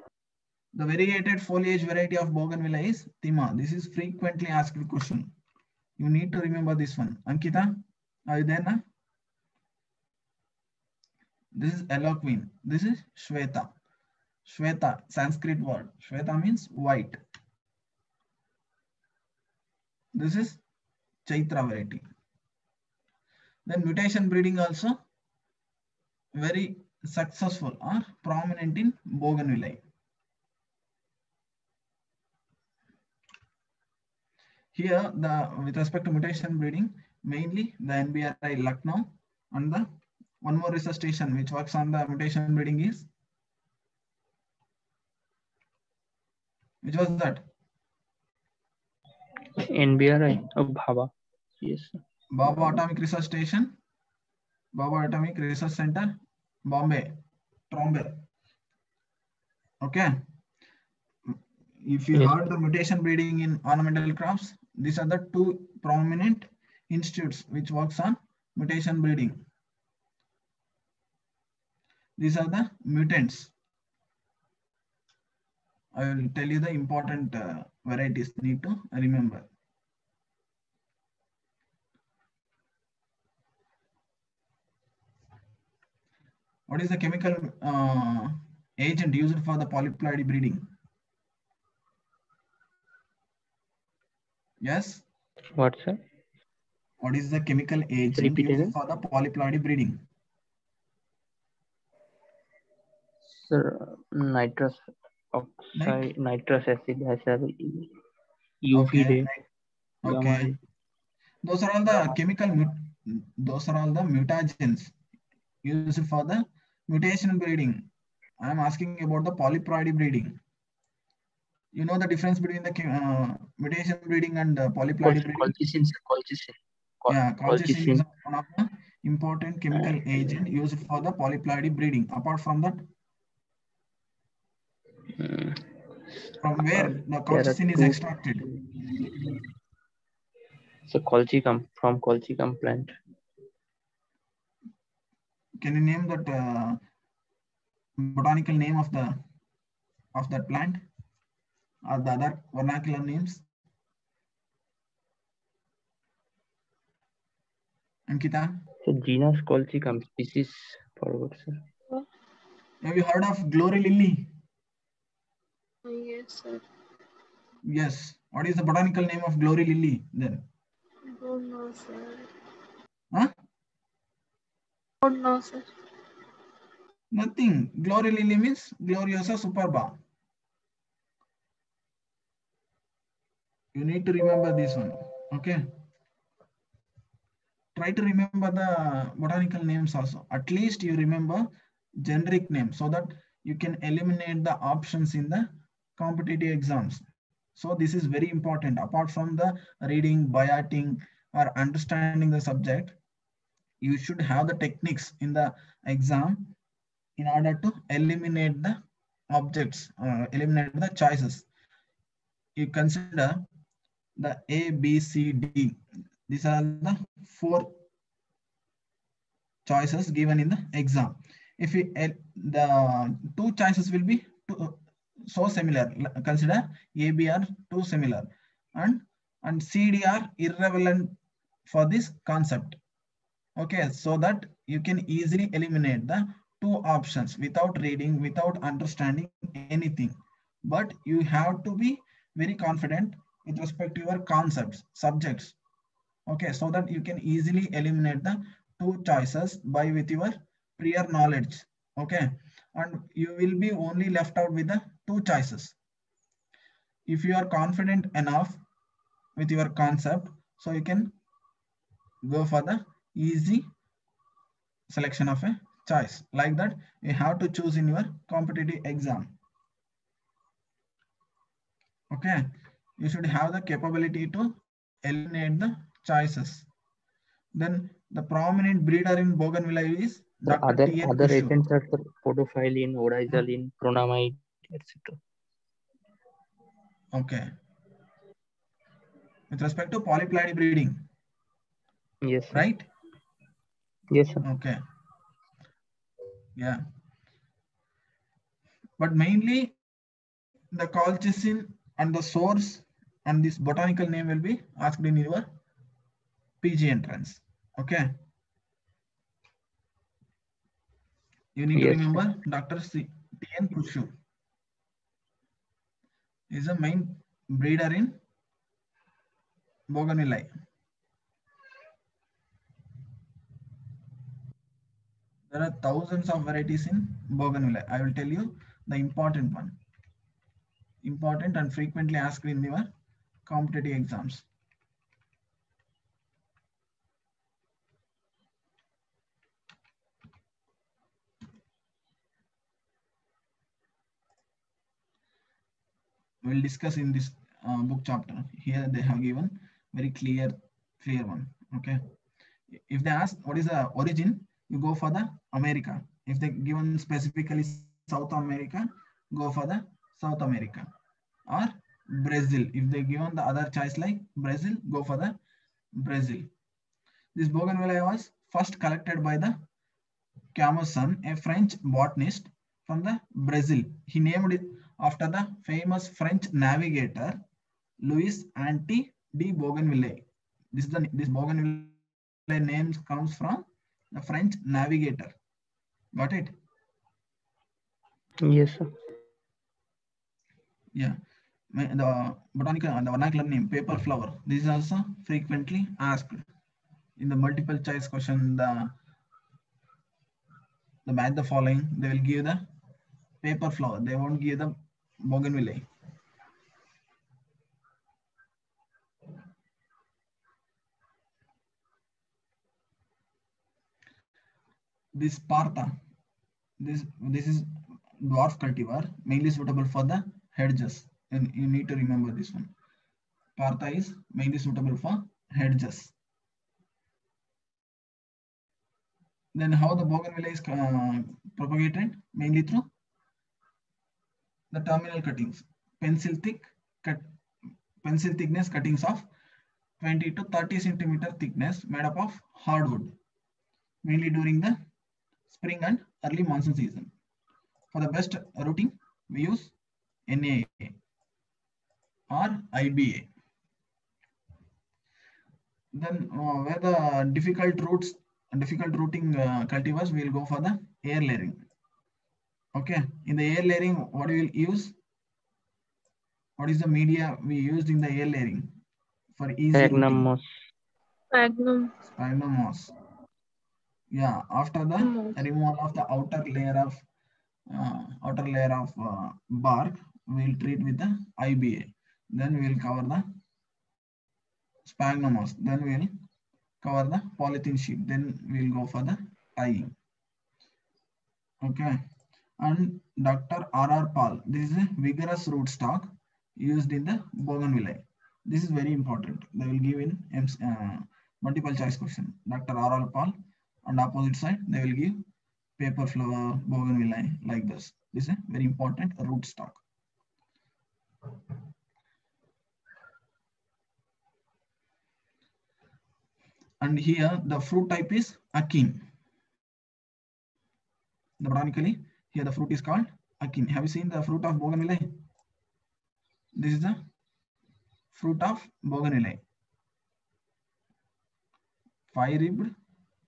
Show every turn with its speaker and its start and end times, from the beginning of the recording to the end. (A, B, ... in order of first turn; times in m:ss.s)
0:00.8-0:05.3 A
0:06.0-0:08.8 A
0:11.6-0:13.7 A
0:14.5-0:17.2 A
0:20.1-0:20.6 A
0:21.3-0:22.0 A
0:23.7-0:25.0 A
0:26.4-0:29.8 A
0:34.7-0:39.9 A
0:40.4-0:43.1 A
0:46.8-0:47.4 A
0:49.6-0:52.0 B
0:52.3-0:53.7 A
0:54.8-0:56.1 A
0:56.7-0:57.2 A
0:57.7-0:58.2 A
0:59.8-1:00.1 A
1:01.8-1:09.4 A
1:12.2-1:13.5 A
1:16.0-1:19.5 A
1:26.7-1:30.6 A
1:34.6-1:35.0 A
1:35.6-1:36.0 B
1:37.0-1:40.0 A
1:38.2-1:38.8 B
1:43.2-1:47.9 B
1:45.8-1:46.1 A
1:48.6-1:49.3 B
1:48.7-1:49.4 A
1:50.0-1:50.6 A
1:50.0-1:50.6 B
1:51.4-1:54.9 A
1:55.6-1:57.8 A
1:58.4-2:00.4 A
2:01.8-2:05.5 A
2:05.0-2:08.0 B
2:07.1-2:12.8 A
2:09.7-2:10.4 B
2:15.2-2:15.6 B
2:16.4-2:18.5 A
2:16.7-2:19.4 B
2:20.9-2:23.0 B
2:25.6-2:26.8 A
2:28.0-2:29.2 A
2:30.2-2:30.8 A
2:31.9-2:33.4 A
2:38.1-2:38.6 A
2:38.8-2:41.6 B
2:42.8-2:44.3 A
2:45.8-2:46.6 C
2:47.7-2:50.4 A
2:51.1-2:52.3 C
2:55.0-2:55.7 C
2:57.1-2:59.9 A
3:03.8-3:05.6 A
3:07.8-3:11.4 A
3:12.0-3:17.0 A
3:17.6-3:23.0 A
3:23.8-3:26.5 A
3:27.2-3:28.8 A
3:29.3-3:31.5 A
3:32.6-3:33.4 A
3:34.2-3:35.8 A
3:36.3-3:37.8 A
3:39.7-3:51.2 A
3:51.7-3:52.8 A
3:53.6-4:05.6 A
4:06.3-4:15.8 A
4:17.1-4:18.6 A
4:19.4-4:21.1 A
4:22.2-4:23.7 A
4:24.9-4:29.3 A
4:32.1-4:32.4 A
4:33.0-4:36.7 A
4:37.6-4:41.6 A
4:40.5-4:45.2 B
4:47.1-4:47.5 A
4:49.5-4:51.0 A
4:52.2-4:52.7 B
4:52.5-4:52.9 A
4:54.1-4:54.4 B
4:54.4-4:54.8 A
4:56.6-4:56.8 A
4:59.0-4:59.8 A
5:00.7-5:05.5 A
5:06.6-5:08.1 A
5:11.6-5:14.1 A
5:11.8-5:12.2 B
5:16.5-5:18.2 A
5:19.9-5:20.5 A
5:25.5-5:29.8 A
5:31.0-5:32.9 A
5:33.5-5:34.4 A
5:46.4-5:52.0 A
5:52.9-6:00.9 A
6:01.5-6:05.4 A
6:06.0-6:06.5 A
6:07.4-6:09.6 A
6:10.6-6:17.4 A
6:18.0-6:25.4 A
6:26.2-6:26.5 A
6:28.4-6:28.9 B
6:31.7-6:36.5 A
6:37.2-6:38.9 A
6:41.1-6:42.6 A
6:43.4-6:45.9 A
6:55.2-6:55.9 A
6:56.8-6:57.7 A
6:58.2-7:02.7 A
7:03.6-7:06.1 A
7:09.6-7:12.9 A
7:14.7-7:17.3 A
7:18.0-7:19.3 A
7:20.0-7:23.1 A
7:24.0-7:24.8 A
7:25.5-7:27.1 A
7:27.9-7:29.7 A
7:30.3-7:31.0 A
7:32.3-7:33.3 A
7:36.0-7:41.6 A
7:42.8-7:45.0 A
7:46.6-7:48.7 A
7:49.4-7:50.3 A
7:49.7-7:50.5 B
7:51.3-7:51.9 C
7:52.1-7:52.9 A
7:54.1-7:57.0 A
7:55.0-7:55.4 C
7:57.7-8:03.2 A
8:04.9-8:06.1 A
8:06.8-8:10.0 A
8:11.6-8:12.0 A
8:12.6-8:25.2 A
8:25.8-8:29.8 A
8:36.8-8:39.0 A
8:41.4-8:45.1 A
8:46.6-8:47.0 A
8:48.1-8:49.4 A
8:52.1-8:52.7 A